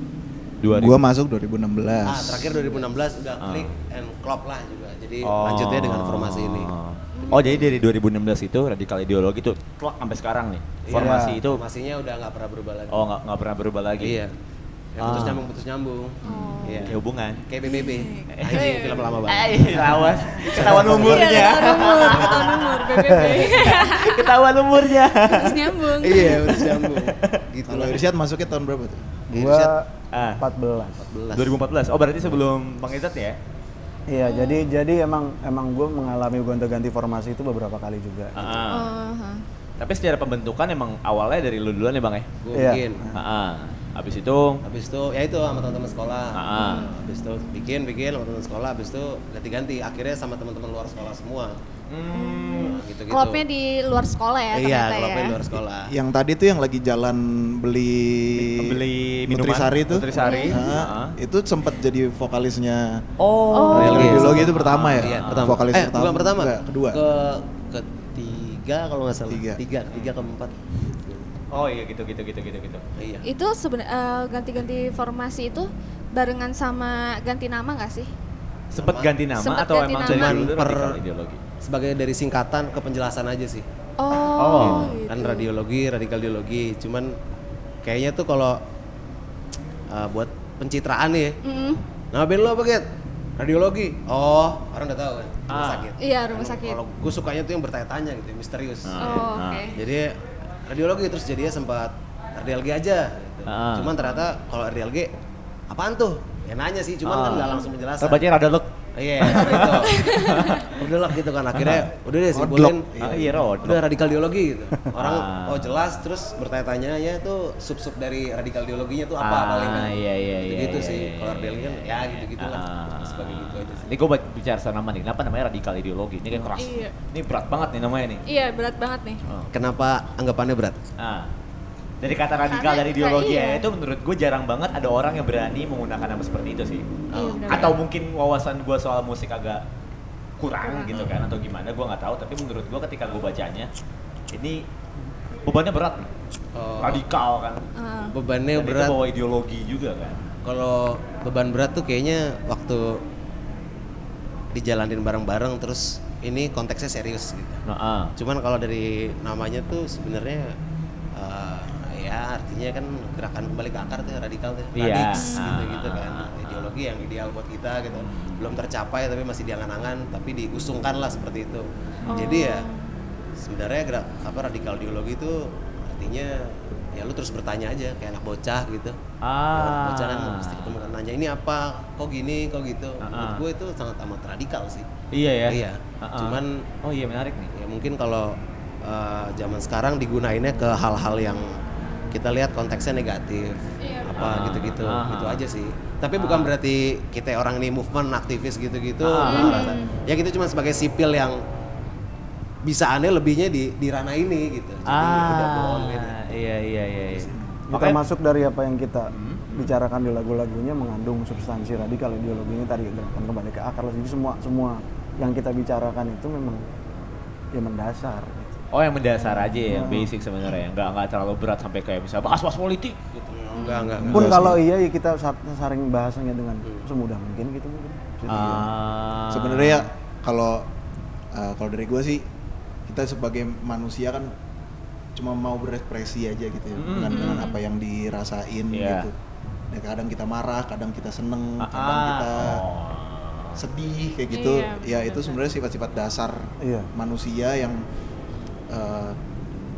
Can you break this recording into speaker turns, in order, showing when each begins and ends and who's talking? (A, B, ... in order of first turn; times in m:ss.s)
0:00.6-0:01.0 A
0:00.7-0:02.5 B
0:02.0-0:07.8 C
0:02.6-0:02.9 D
0:03.4-0:03.7 A
0:05.2-0:11.6 A
0:07.2-0:07.7 D
0:10.8-0:13.1 C
0:10.9-0:11.4 E
0:12.9-0:14.2 A
0:14.0-0:14.3 C
0:15.0-0:21.2 C
0:15.0-0:15.4 A
0:16.2-0:17.4 A
0:16.3-0:17.0 D
0:17.6-0:19.2 D
0:18.4-0:27.4 A
0:20.5-0:21.2 E
0:21.0-0:24.3 D
0:22.1-0:22.4 C
0:25.2-0:26.6 D
0:26.0-0:28.0 C
0:27.7-0:29.2 B
0:29.3-0:29.9 E
0:29.3-0:29.8 C
0:30.1-0:30.4 A
0:30.4-0:31.0 E
0:31.0-0:31.6 C
0:31.3-0:33.4 A
0:34.1-0:38.6 E
0:34.2-0:34.7 D
0:38.4-0:38.9 A
0:38.7-0:39.4 D
0:39.8-0:42.3 A
0:42.4-0:43.0 C
0:42.5-0:42.8 E
0:43.1-0:44.6 A
0:44.6-0:51.6 C
0:46.4-0:46.9 A
0:46.6-0:47.0 D
0:51.9-0:52.8 A
0:52.2-0:55.4 D
0:52.8-0:53.4 C
0:54.5-0:55.9 C
0:55.9-1:03.0 B
0:58.4-1:01.2 A
1:00.1-1:00.7 D
1:03.2-1:05.7 A
1:03.5-1:04.4 D
1:03.7-1:07.0 B
1:03.7-1:11.2 C
1:09.3-1:09.6 B
1:11.5-1:12.8 A
1:13.0-1:13.2 C
1:13.2-1:18.1 D
1:18.7-1:21.4 A
1:18.8-1:19.2 C
1:19.3-1:20.3 D
1:20.1-1:21.0 C
1:21.6-1:23.7 C
1:24.0-1:25.5 D
1:24.4-1:25.0 A
1:24.6-1:27.2 C
1:27.8-1:28.6 C
1:29.9-1:31.4 C
1:31.4-1:31.8 D
1:32.1-1:32.9 C
1:33.4-1:40.1 C
1:35.5-1:35.9 A
1:36.0-1:36.8 D
1:38.8-1:39.7 A
1:39.0-1:39.8 D
1:40.7-1:45.1 C
1:43.5-1:44.0 A
1:45.7-1:48.2 C
1:47.0-1:50.8 A
1:49.0-1:50.0 C
1:49.9-1:50.7 D
1:50.7-1:52.9 C
1:51.5-1:51.9 A
1:52.3-1:53.8 B
1:53.0-1:53.8 A
1:53.6-2:03.9 C
1:54.9-1:55.9 A
1:59.2-2:08.2 A
2:06.5-2:06.9 D
2:08.3-2:09.2 D
2:09.5-2:10.8 C
2:11.0-2:11.3 A
2:12.0-2:16.9 A
2:12.5-2:13.6 D
2:17.1-2:17.7 C
2:17.1-2:17.8 D
2:17.5-2:19.6 A
2:20.4-2:23.7 A
2:20.6-2:21.1 D
2:24.3-2:24.6 A
2:25.5-2:26.1 A
2:26.6-2:27.0 C
2:26.8-2:27.7 A
2:27.8-2:28.2 D
2:28.1-2:29.0 C
2:28.6-2:30.2 A
2:30.4-2:33.0 C
2:34.5-2:37.6 C
2:37.7-2:38.1 A
2:38.2-2:40.5 C
2:41.2-2:52.6 C
2:44.8-2:46.8 A
2:45.2-2:45.5 D
2:47.9-2:48.6 A
2:52.1-2:52.9 D
2:53.4-2:59.0 C
2:59.2-3:00.8 A
2:59.5-3:04.9 C
3:03.0-3:03.4 A
3:05.1-3:07.5 A
3:05.5-3:06.6 C
3:07.5-3:11.5 C
3:12.1-3:21.4 C
3:13.8-3:14.3 D
3:14.2-3:15.4 A
3:16.2-3:16.5 A
3:19.0-3:19.8 A
3:19.3-3:19.9 D
3:22.6-3:26.2 C
3:24.9-3:28.0 A
3:27.7-3:36.6 E
3:29.1-3:29.7 A
3:37.5-3:38.6 E
3:38.7-3:43.1 A
3:39.3-3:39.6 D
3:39.6-3:40.1 E
3:43.2-3:44.5 C
3:43.5-3:44.0 D
3:44.0-3:44.6 B
3:44.1-3:48.7 E
3:48.3-3:49.9 A
3:49.3-3:50.7 B
3:51.3-3:52.2 B
3:52.9-3:54.3 B
3:55.2-3:59.1 B
3:56.8-3:57.5 A
3:57.1-3:57.6 D
3:58.7-3:59.1 A
3:59.7-4:02.6 B
4:01.6-4:03.6 A
4:03.6-4:07.8 B
4:04.3-4:05.4 D
4:06.6-4:06.9 E
4:08.7-4:09.2 B